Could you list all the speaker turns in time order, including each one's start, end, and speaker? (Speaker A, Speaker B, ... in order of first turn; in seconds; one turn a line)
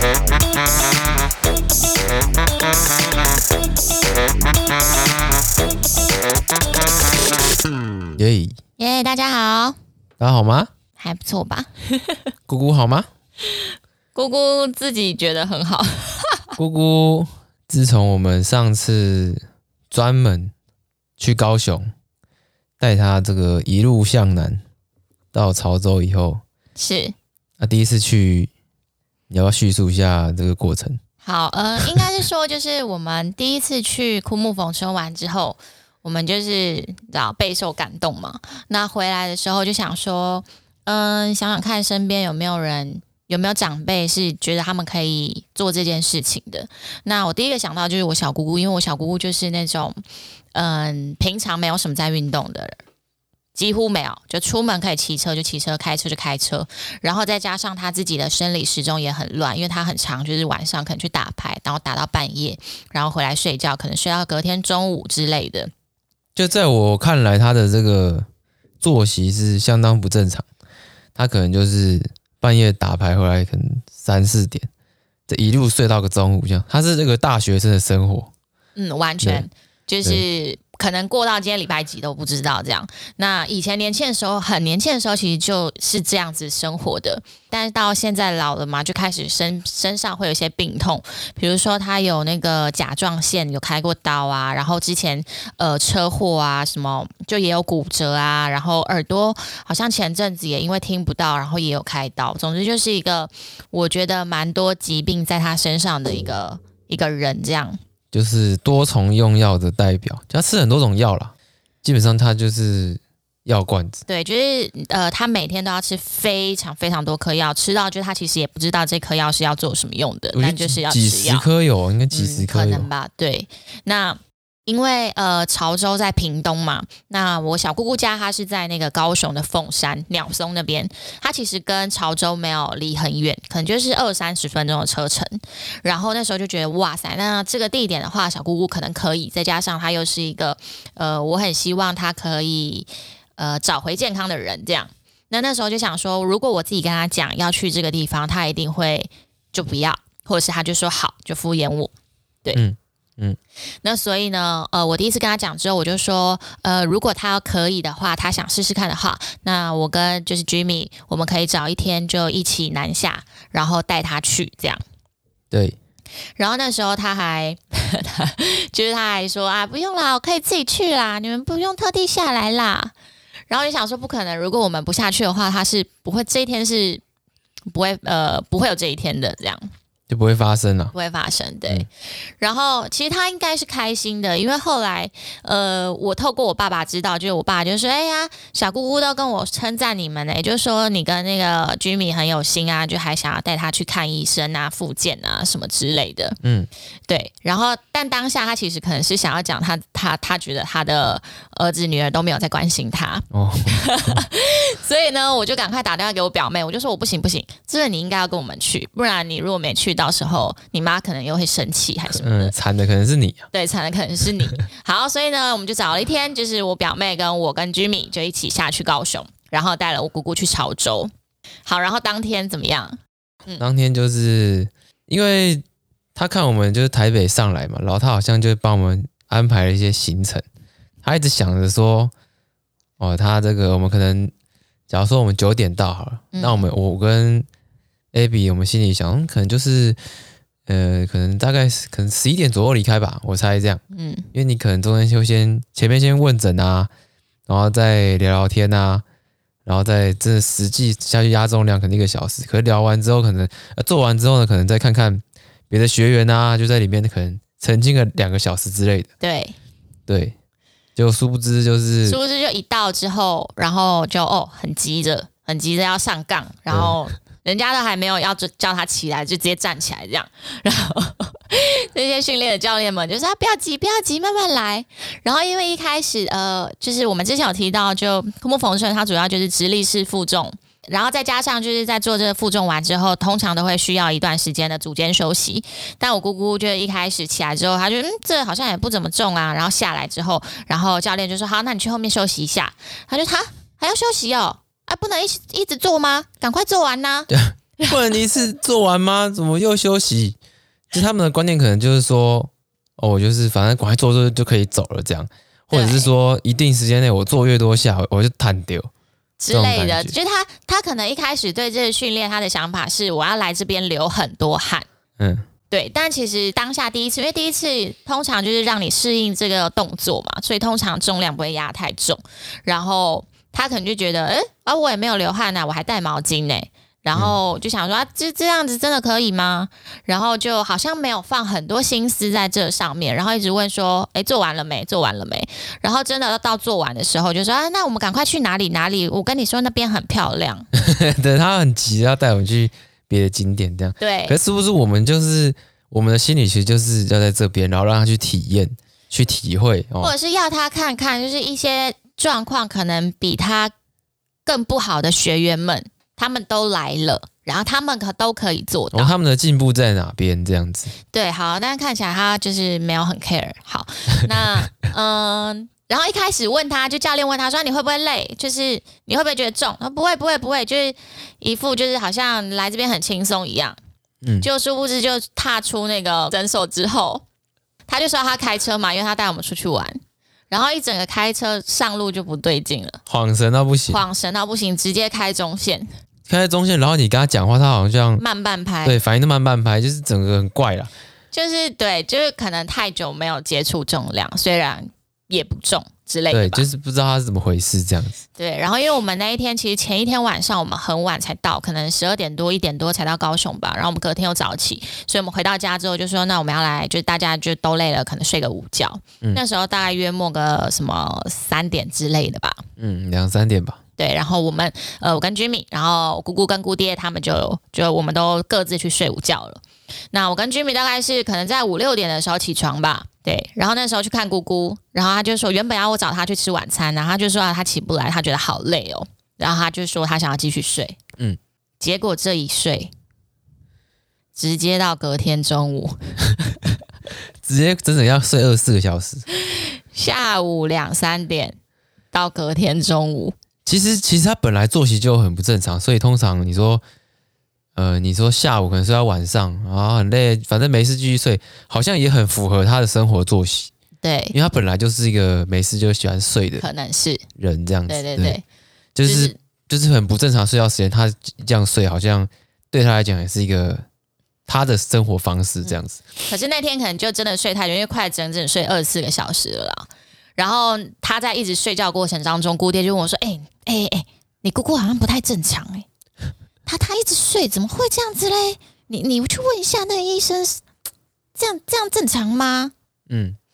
Speaker A: 8.1-8.6
Speaker B: 8.8-9.8
Speaker A: 10.2-10.7
Speaker B: 11.0-12.2
Speaker A: 12.5-13.1
Speaker B: 14.1-16.5
Speaker A: 16.6-20.5
Speaker A: 21.2-21.9
Speaker A: 22.8-24.6
Speaker A: 25.3-26.4
Speaker B: 26.8-27.1
Speaker A: 27.6-28.5
Speaker A: 29.3-31.0
Speaker B: 31.2-50.0
Speaker B: 50.5-52.8
Speaker B: 53.5-65.7
Speaker A: 66.3-68.2
Speaker A: 68.8-70.4
Speaker A: 71.2-74.7
Speaker A: 75.3-78.3
Speaker B: 78.8-107.8
Speaker A: 108.1-114.0
Speaker B: 114.1-121.5
Speaker A: 120.3-122.9
Speaker B: 122.1-151.9
Speaker A: 152.5-153.4
Speaker B: 153.8-164.8
Speaker A: 165.5-165.8
Speaker B: 166.4-172.9
Speaker B: 173.5-177.0
Speaker B: 177.7-179.7
Speaker A: 180.1-180.9
Speaker B: 180.9-196.4
Speaker A: 196.4-196.7
Speaker B: 197.1-212.5
Speaker A: 203.3-204.2
Speaker A: 212.1-213.5
Speaker B: 213.5-221.1
Speaker B: 221.7-223.6
Speaker A: 223.6-225.6
Speaker A: 226.1-230.4
Speaker A: 231.0-232.1
Speaker A: 233.0-234.3
Speaker A: 234.9-237.5
Speaker B: 236.3-236.7
Speaker A: 238.1-240.0
Speaker A: 240.7-243.8
Speaker B: 243.9-244.3
Speaker A: 244.3-246.9
Speaker A: 247.5-249.0
Speaker A: 249.7-259.1
Speaker B: 259.2-259.6
Speaker A: 260.1-260.3
Speaker A: 260.9-262.2
Speaker B: 262.1-297.9
Speaker A: 266.7-267.0
Speaker A: 297.3-300.4
Speaker A: 300.9-308.9
Speaker B: 305.7-306.1
Speaker B: 309.4-314.9
Speaker A: 309.5-310.1
Speaker A: 315.2-315.4
Speaker B: 315.7-340.7
Speaker A: 340.7-350.1
Speaker B: 344.0-344.4
Speaker B: 350.0-353.7
Speaker B: 354.4-359.1
Speaker A: 358.9-360.9
Speaker B: 361.1-373.8
Speaker A: 374.2-374.5
Speaker B: 374.4-377.2
Speaker B: 377.9-380.0
Speaker B: 380.5-383.0
Speaker A: 383.1-384.0
Speaker B: 383.9-385.9
Speaker A: 386.3-388.2
Speaker B: 388.2-388.9
Speaker A: 388.8-390.9
Speaker B: 391.3-396.6
Speaker A: 396.3-398.2
Speaker B: 398.4-412.6
Speaker A: 412.8-413.8
Speaker B: 414.0-431.0
Speaker B: 431.8-432.9
Speaker B: 434.3-436.8
Speaker A: 437.4-439.2
Speaker B: 439.3-441.6
Speaker B: 442.1-443.3
Speaker A: 443.6-446.8
Speaker A: 447.8-453.7
Speaker B: 454.0-454.4
Speaker A: 454.3-456.6
Speaker B: 456.6-457.2
Speaker A: 457.4-458.4
Speaker B: 457.9-458.4
Speaker A: 458.9-463.8
Speaker B: 459.0-459.3
Speaker A: 464.5-466.0
Speaker B: 466.3-475.9
Speaker B: 476.6-480.6
Speaker B: 481.4-482.7
Speaker A: 483.1-483.4